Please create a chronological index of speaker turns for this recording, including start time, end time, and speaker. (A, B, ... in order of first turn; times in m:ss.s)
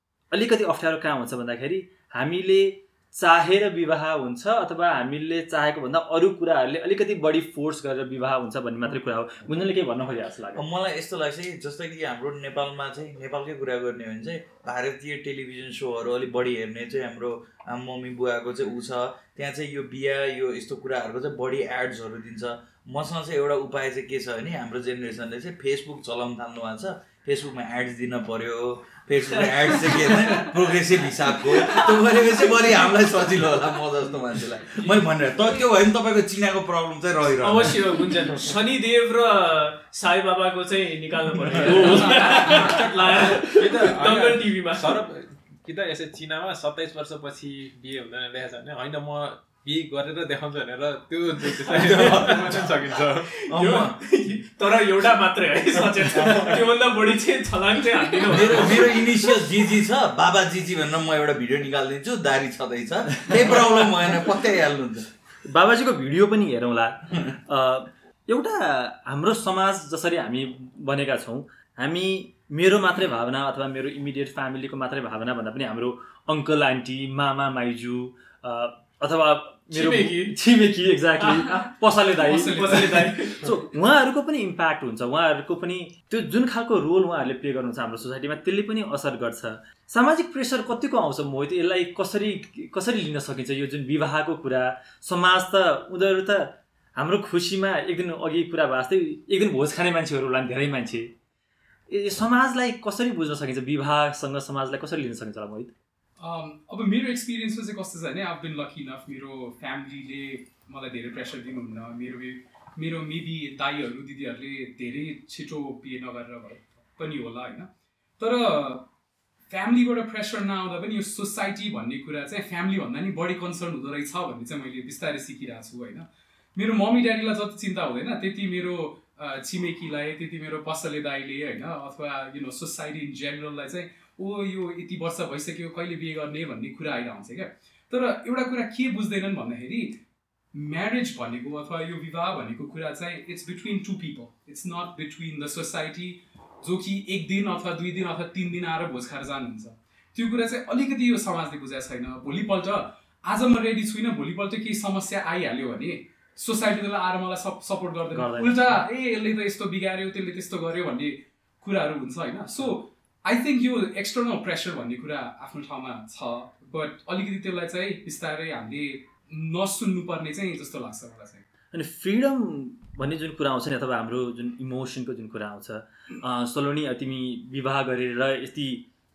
0:00.3-0:10.6 A
0:10.5-0:38.3 B
0:29.6-0:30.4 C
0:31.4-0:32.5 C
0:37.4-0:45.0 C
0:41.5-0:53.3 D
0:51.7-0:52.7 B
0:51.9-0:52.5 C
0:53.3-0:59.2 C
0:53.5-0:54.0 B
0:56.2-0:56.6 D
0:58.2-1:05.1 B
1:05.4-1:41.1 A
1:19.7-1:20.4 C
1:22.2-1:23.6 C
1:22.2-1:23.5 E
1:41.9-1:45.7 A
1:46.2-1:58.9 E
1:59.5-2:20.0 E
2:20.5-2:51.4 E
2:38.1-2:38.8 A
2:51.7-2:58.9 A